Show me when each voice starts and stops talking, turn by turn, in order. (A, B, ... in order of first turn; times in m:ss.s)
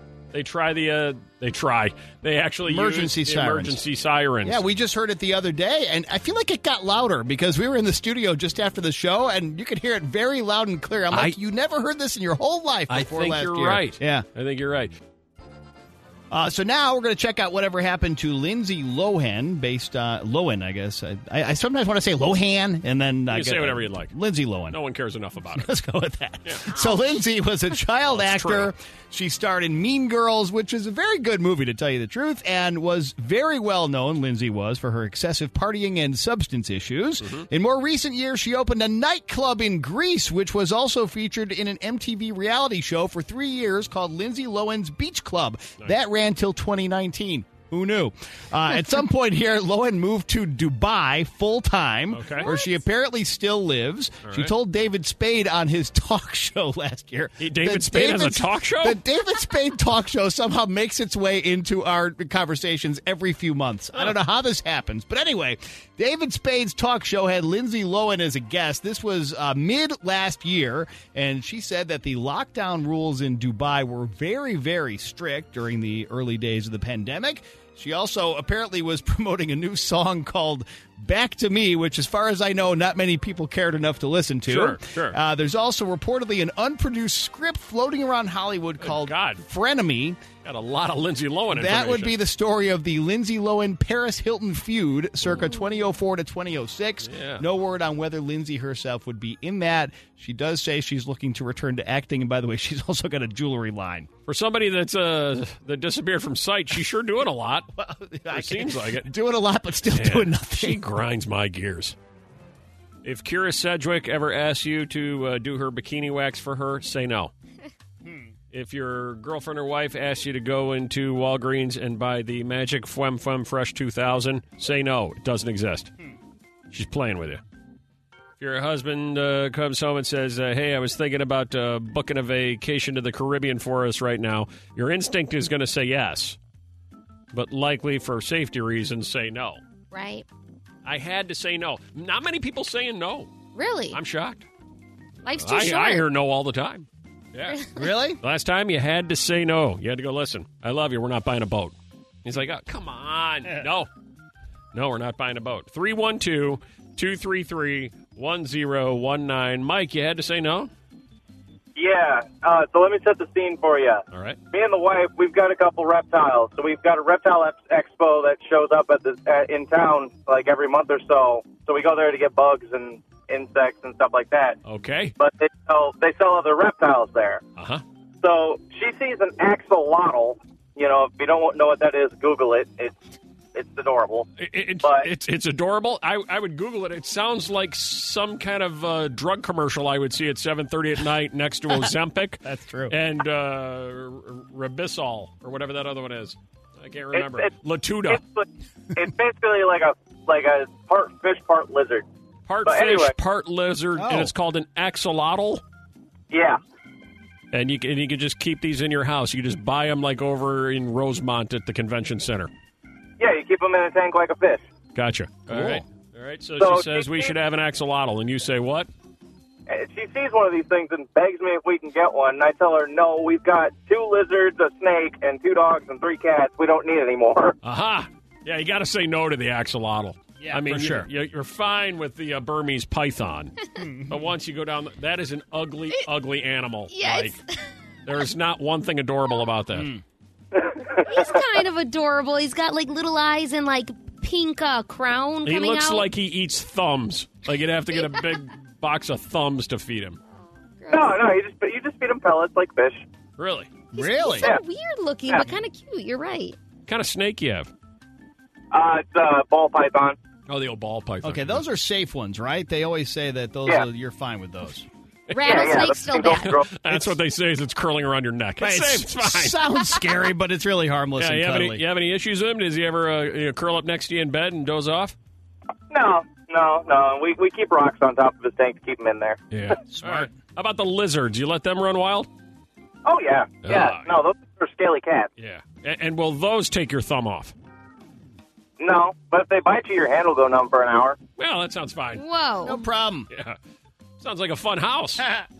0:00.3-0:04.6 A
0:02.6-0:03.8 B
0:04.4-0:14.2 B
0:11.1-0:11.4 A
0:12.9-0:14.9 A
0:16.3-0:24.8 B
0:23.3-0:24.1 A
0:24.7-0:25.7 A
0:25.5-1:30.2 B
0:28.1-0:28.7 A
0:37.2-0:37.5 A
0:52.1-0:52.5 A
0:52.4-0:52.8 C
0:54.2-0:54.5 A
0:57.4-0:59.0 A
1:24.5-1:25.2 A
1:28.8-1:29.4 A
1:30.4-1:32.2 A
1:31.5-1:44.1 B
1:37.0-1:37.4 A
1:44.3-1:47.7 A
1:47.7-1:50.8 B
1:48.3-1:49.1 A
1:49.9-1:51.9 A
1:53.0-1:57.3 A
1:58.0-1:58.3 B
1:58.5-2:05.9 A
2:06.7-2:07.4 A
2:08.4-2:16.4 A
2:17.3-2:19.6 A
2:19.9-2:20.2 C
2:20.8-2:23.3 A
2:23.5-2:24.0 C
2:23.9-2:24.4 A
2:25.2-2:26.0 C
2:25.4-2:27.6 A
2:27.7-2:28.2 B
2:28.2-2:33.9 A
2:34.7-2:40.7 A
2:41.8-2:54.6 D
2:44.1-2:44.4 A
2:54.6-2:55.1 A
2:55.2-2:57.4 D
2:57.6-2:57.8 A
2:58.2-3:02.9 D
3:03.5-3:04.3 D
3:04.4-3:18.2 A
3:04.8-3:05.1 D
3:12.4-3:13.0 B
3:17.1-3:17.5 D
3:18.1-3:22.0 D
3:22.5-3:25.6 A
3:22.6-3:23.1 D
3:24.0-3:24.3 B
3:26.3-3:26.6 D
3:27.5-3:32.5 A
3:33.2-3:34.6 D
3:34.9-3:38.9 A
3:35.5-3:35.8 B
3:36.6-3:37.3 D
3:39.7-3:47.6 D
3:47.6-3:53.6 A
3:50.4-3:51.1 B
3:53.8-3:54.3 B
3:54.1-3:57.4 A
3:56.9-3:57.7 C
3:58.0-3:59.9 A
3:59.7-4:00.0 B
4:00.6-4:01.2 D
4:01.0-4:06.1 C
4:05.4-4:10.2 A
4:10.8-4:11.2 C
4:10.9-4:13.0 D
4:13.4-4:13.7 A
4:13.9-4:16.6 C
4:13.9-4:14.5 B
4:16.9-4:17.7 A
4:18.7-4:20.2 D
4:20.5-4:21.6 A
4:21.2-4:24.9 B
4:25.3-4:29.6 A
4:25.3-4:26.5 C
4:25.4-4:26.7 D
4:26.9-4:27.2 B
4:28.6-4:31.8 B
4:31.2-4:35.1 A
4:35.9-4:39.4 D
4:39.5-4:42.3 A
4:39.9-4:40.3 B
4:43.0-4:45.3 D
4:43.6-4:44.2 A
4:45.4-4:47.5 A
4:48.8-4:51.2 D
4:51.4-4:52.2 A
4:52.1-4:52.8 C
4:52.6-4:53.3 B
4:53.3-4:53.6 A
4:54.2-4:55.3 A